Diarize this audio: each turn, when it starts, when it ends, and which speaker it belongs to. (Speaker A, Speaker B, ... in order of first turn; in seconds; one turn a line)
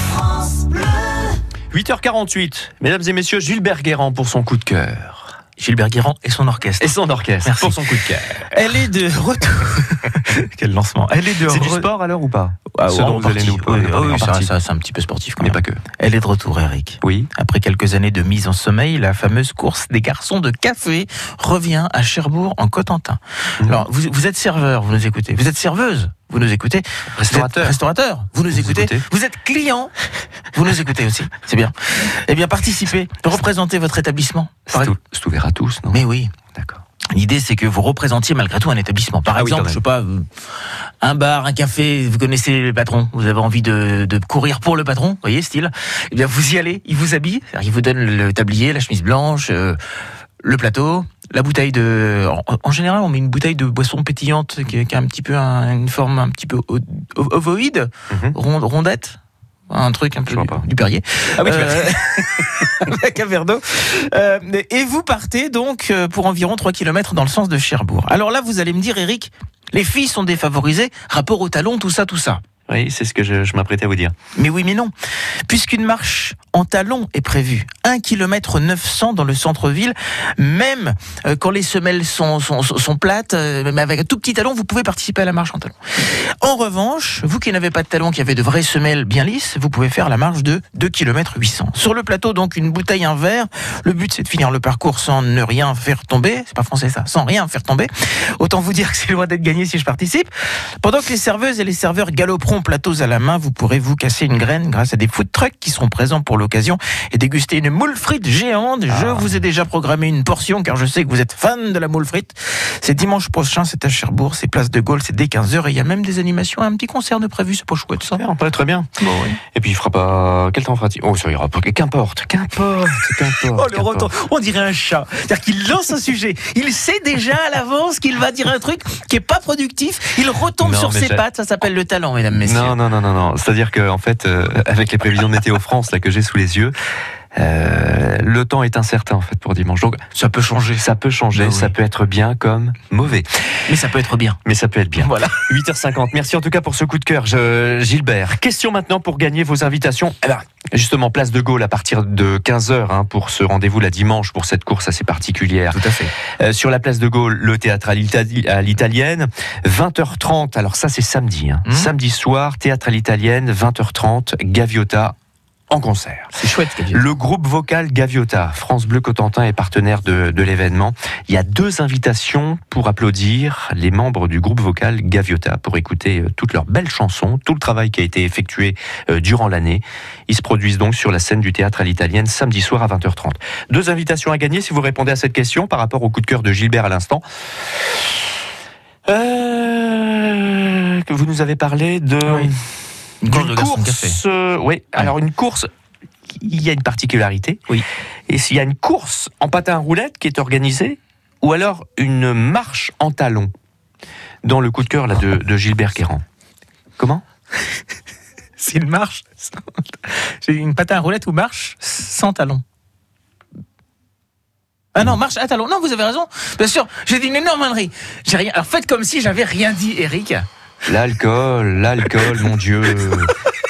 Speaker A: 1.7-5.3
Speaker B: 5.6-11.9
Speaker A: 6.8-8.5
Speaker A: 11.3-14.5
Speaker B: 12.7-29.9
Speaker A: 15.4-15.8
Speaker A: 17.0-17.3
Speaker A: 27.2-27.8
Speaker A: 28.5-29.0
Speaker B: 30.5-34.9
Speaker A: 34.7-36.0
Speaker B: 35.9-36.3
Speaker A: 36.5-36.8
Speaker B: 37.1-40.3
Speaker A: 39.3-39.8
Speaker B: 41.0-49.8
Speaker B: 50.4-59.2
Speaker A: 58.1-58.4
Speaker B: 59.7-72.4
Speaker A: 60.3-60.6
Speaker A: 61.4-61.9
Speaker A: 72.7-74.1
Speaker B: 74.4-74.9
Speaker B: 75.5-118.2
Speaker A: 108.9-109.4
Speaker A: 118.2-118.9
Speaker B: 119.0-119.4
Speaker A: 119.5-124.1
Speaker B: 123.5-132.8
Speaker A: 130.6-131.2
Speaker A: 132.4-136.8
Speaker A: 137.3-140.0
Speaker B: 140.1-141.8
Speaker A: 140.8-143.3
Speaker B: 143.7-144.4
Speaker A: 144.4-155.8
Speaker B: 145.0-145.4
Speaker B: 155.7-156.1
Speaker A: 156.4-165.2
Speaker B: 161.7-161.9
Speaker A: 165.7-166.3
Speaker B: 166.3-167.1
Speaker A: 166.9-187.2
Speaker A: 189.1-192.6
Speaker B: 192.2-192.5
Speaker B: 193.2-194.2
Speaker A: 193.3-195.7
Speaker A: 196.3-197.7
Speaker A: 198.3-203.5
Speaker A: 204.4-206.2
Speaker A: 207.0-207.2
Speaker B: 208.6-212.6
Speaker B: 214.9-220.4
Speaker A: 220.9-223.3